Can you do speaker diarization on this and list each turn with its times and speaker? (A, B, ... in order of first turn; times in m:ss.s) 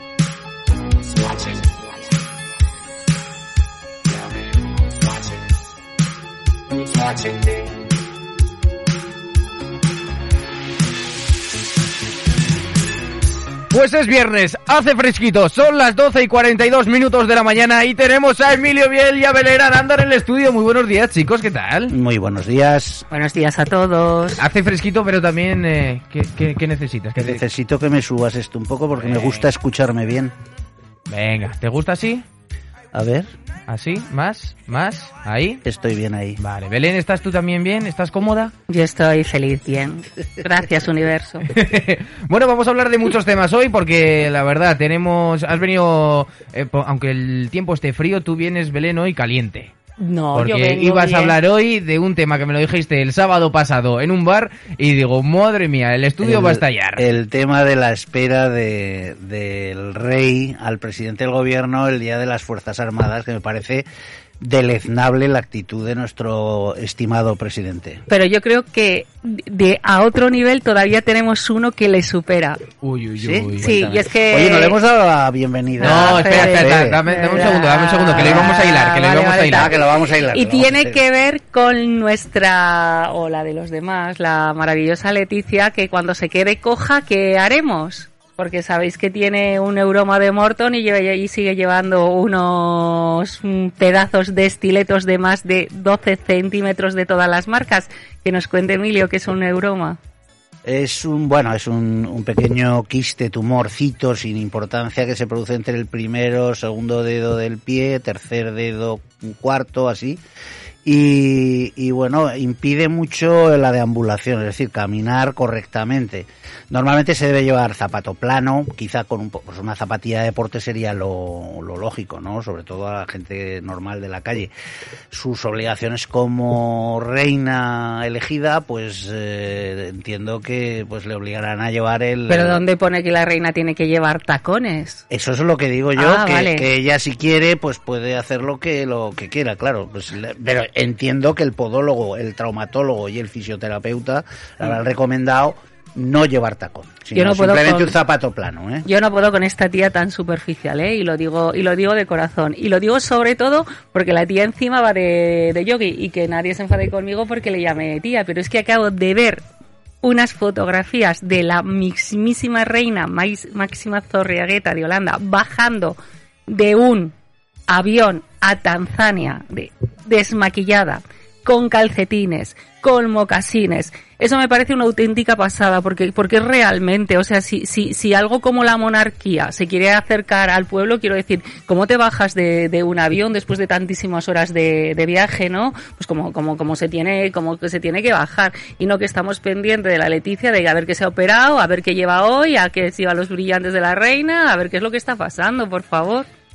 0:13.7-0:21.9 A
0:21.9-0:23.0 B
0:23.1-0:24.4 C
0:24.4-0:27.4 A
0:27.2-0:30.3 B
0:29.1-0:29.4 A
0:31.1-0:32.2 A
0:32.9-0:33.3 B
0:33.7-0:35.6 A
0:35.6-0:36.4 B
0:36.4-0:38.5 A
0:38.7-0:41.5 C
0:41.4-0:49.7 A
0:50.0-0:51.4 C
0:50.3-0:57.0 A
0:56.2-1:03.8 B
1:04.4-1:08.0 B
1:08.1-1:12.7 C
1:12.8-1:13.7 A
1:13.2-1:17.5 B
1:13.6-1:14.8 C
1:15.8-1:19.7 A
1:15.8-1:19.7 C
1:18.1-1:18.5 B
1:19.4-1:21.0 B
1:20.3-1:40.0 C
1:40.6-1:50.2 B
1:50.8-2:04.5 B
2:05.1-2:12.6 B
2:12.3-2:15.0 C
2:15.1-2:28.9 B
2:16.0-2:16.6 C
2:27.1-2:27.9 C
2:28.8-2:39.4 C
2:40.0-2:47.1 C
2:47.7-3:16.3 C